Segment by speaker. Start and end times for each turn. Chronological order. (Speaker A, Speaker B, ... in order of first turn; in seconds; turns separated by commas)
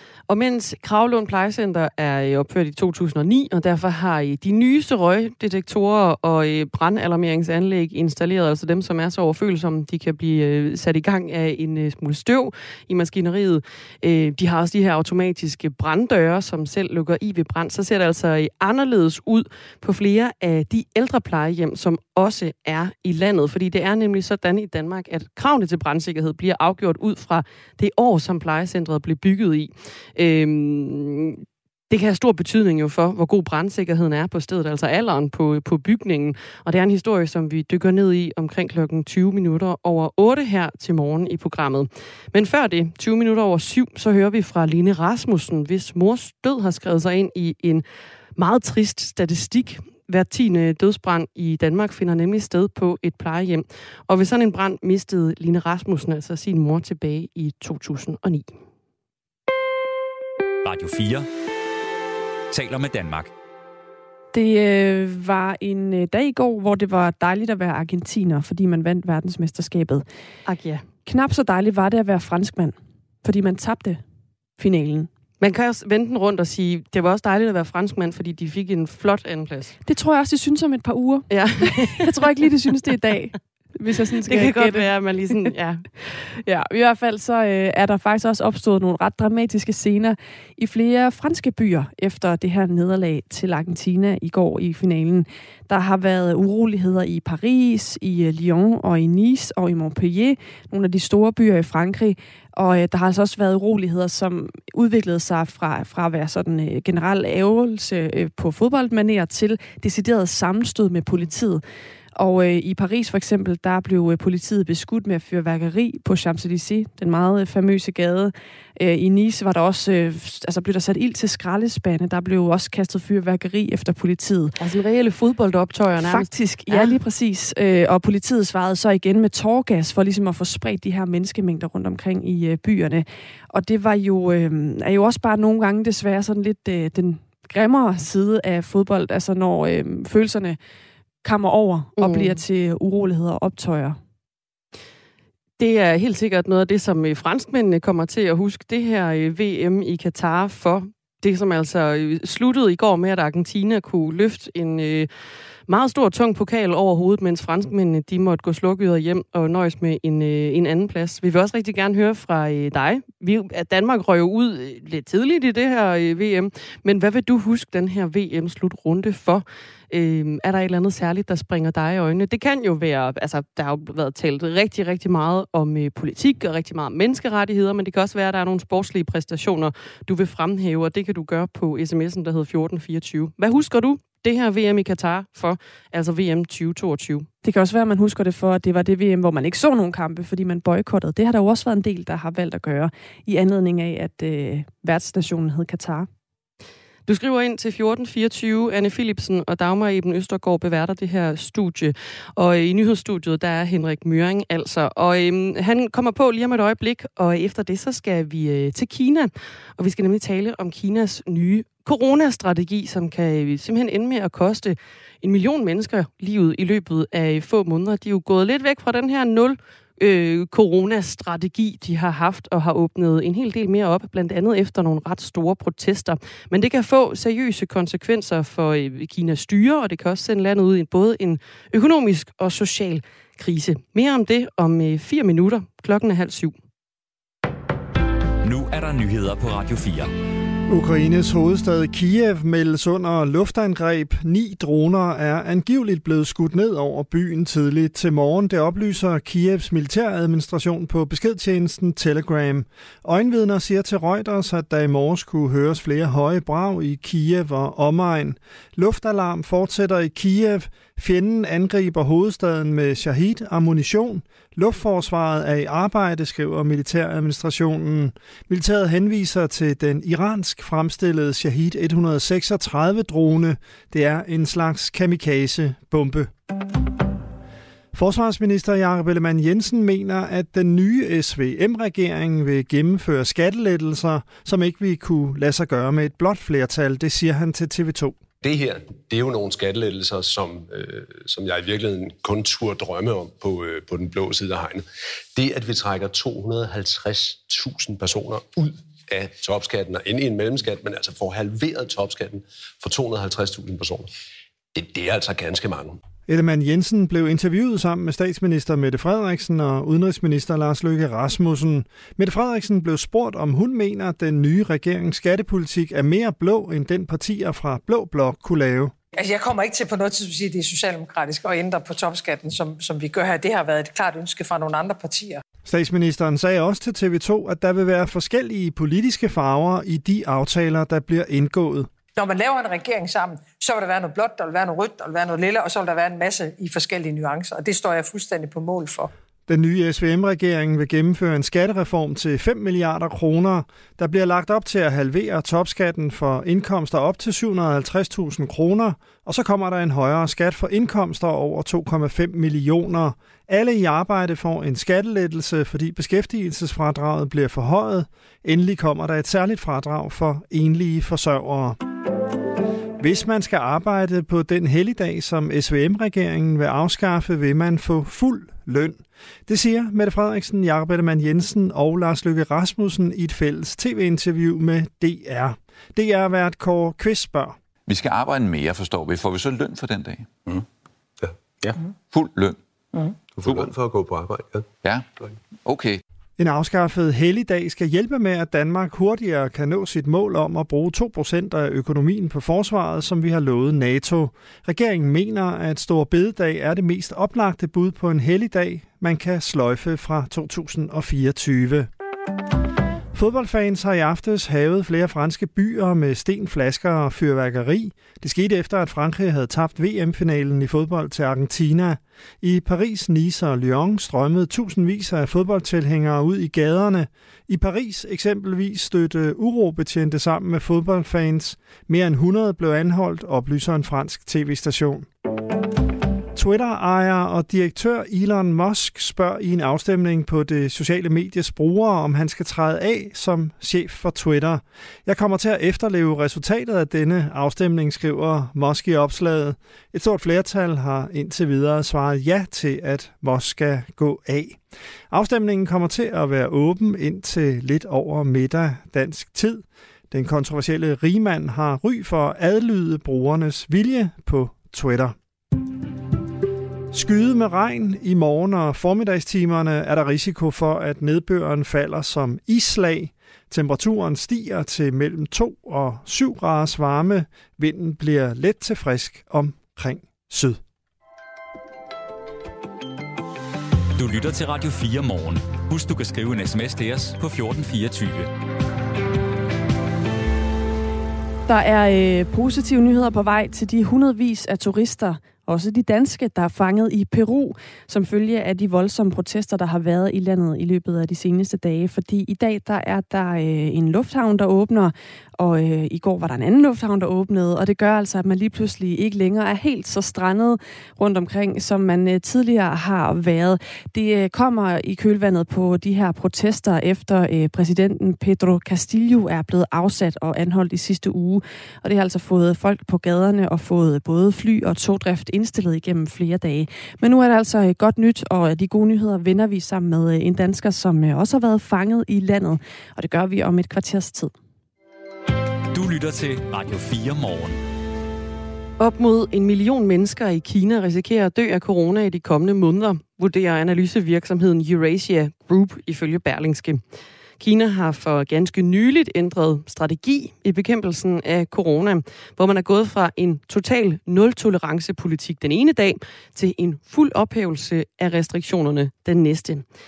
Speaker A: 0.3-47.8, Speaker A: 48.4-58.6, Speaker B: 60.6-61.3, Speaker B: 62.5-63.3, Speaker C: 64.3-70.1, Speaker A: 70.5-70.8, Speaker C: 71.1-74.0, Speaker C: 74.6-75.1, Speaker A: 75.4-79.8, Speaker C: 79.8-85.5, Speaker A: 81.3-82.1, Speaker A: 84.2-86.3, Speaker C: 86.4-111.6, Speaker C: 112.2-124.5, Speaker A: 124.6-127.0, Speaker C: 126.0-140.6, Speaker C: 141.2-144.0, Speaker A: 142.0-142.4, Speaker A: 145.6-155.1, Speaker A: 155.7-187.3, Speaker C: 187.4-196.1, Speaker A: 197.1-236.6, Speaker B: 238.4-240.1, Speaker D: 240.7-276.3, Speaker D: 277.9-288.2, Speaker E: 288.4-304.1, Speaker E: 304.8-306.0, Speaker D: 306.3-318.9, Speaker F: 319.1-325.4, Speaker D: 325.7-331.9, Speaker F: 332.1-339.1, Speaker D: 339.5-361.8, Speaker D: 363.0-377.6, Speaker G: 377.9-380.3, Speaker E: 381.2-381.8, Speaker G: 382.1-382.6, Speaker E: 383.3-385.4, Speaker G: 383.4-383.7, Speaker G: 385.7-385.9, Speaker D: 386.4-401.9, Speaker D: 403.1-425.1, Speaker D: 426.4-455.1, Speaker D: 456.9-470.6, Speaker B: 473.9-478.3, Speaker C: 481.5-524.3, Speaker B: 525.7-527.6, Speaker A: 528.8-536.8, Speaker A: 537.4-549.6